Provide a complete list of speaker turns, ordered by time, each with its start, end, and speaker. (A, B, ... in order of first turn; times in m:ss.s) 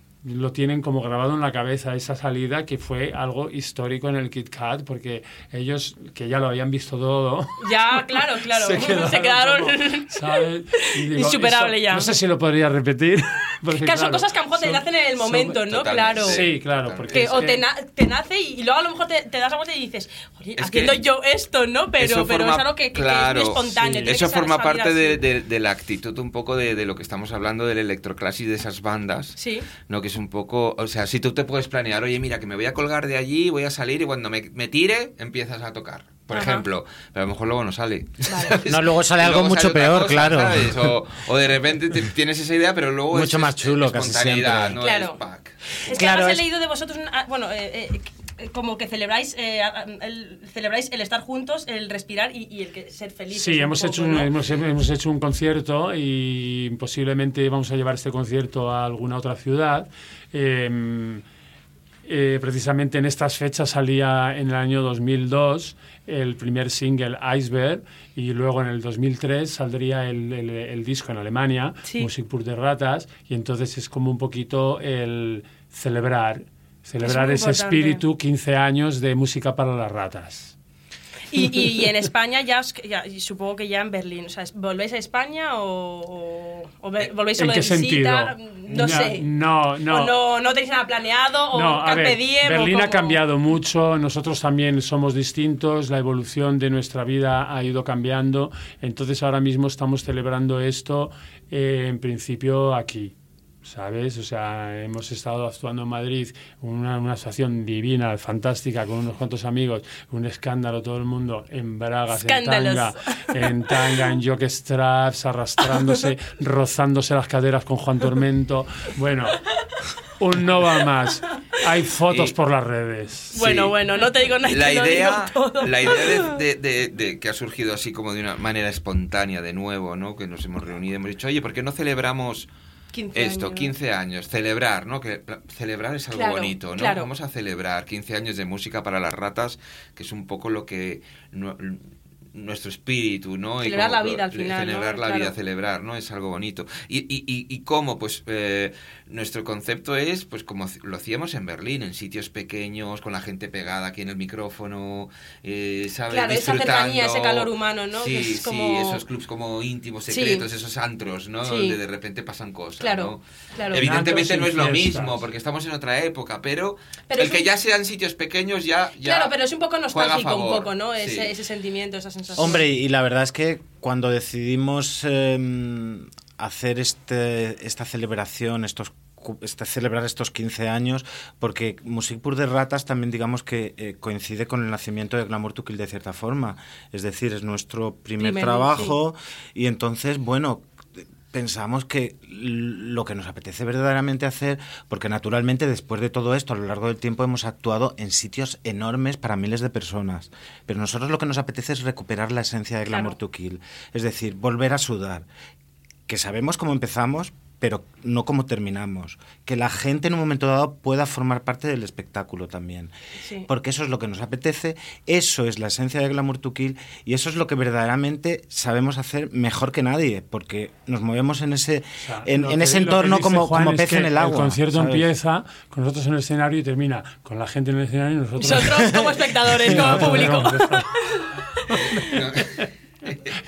0:00.2-0:15.6 A
0:07.6-0:12.1 B
0:08.6-0:09.0 C
0:13.8-0:16.6 B
0:15.6-0:17.4 C
0:16.2-0:17.7 A
0:17.1-0:25.2 B
0:20.6-0:21.0 C
0:22.0-0:45.6 C
0:23.8-0:24.2 A
0:29.4-0:29.7 B
0:36.3-0:36.6 B
0:38.3-0:38.6 B
0:38.7-0:40.9 D
0:43.1-0:44.7 D
0:44.8-0:45.2 B
0:45.9-0:54.3 B
0:45.9-0:46.4 D
0:53.3-1:01.2 A
1:02.1-1:20.5 A
1:11.8-1:12.1 B
1:17.0-1:18.0 B
1:21.3-1:29.2 B
1:21.3-1:21.6 A
1:27.4-1:30.2 A
1:29.9-1:33.2 B
1:31.5-1:59.4 A
1:52.1-1:53.4 B
2:00.2-2:03.6 A
2:03.4-2:06.4 B
2:03.4-2:12.5 C
2:12.9-2:13.7 B
2:13.1-2:21.8 C
2:16.1-2:17.1 B
2:22.3-2:51.4 C
2:23.6-2:25.3 B
2:36.1-2:39.0 B
2:40.1-2:40.4 B
2:41.4-2:41.8 B
2:42.8-2:43.9 B
2:43.7-2:45.2 A
2:47.1-2:47.5 B
2:49.0-2:52.6 B
2:52.4-3:10.7 D
3:08.2-3:09.0 B
3:11.2-3:25.3 D
3:22.9-3:23.2 B
3:26.1-3:32.9 D
3:33.2-3:33.5 B
3:33.5-3:45.1 D
3:42.0-3:49.0 A
3:48.4-3:51.1 B
3:48.8-3:49.2 D
3:49.6-3:50.9 A
3:49.8-3:50.0 D
3:51.7-3:52.0 B
3:52.0-3:53.3 C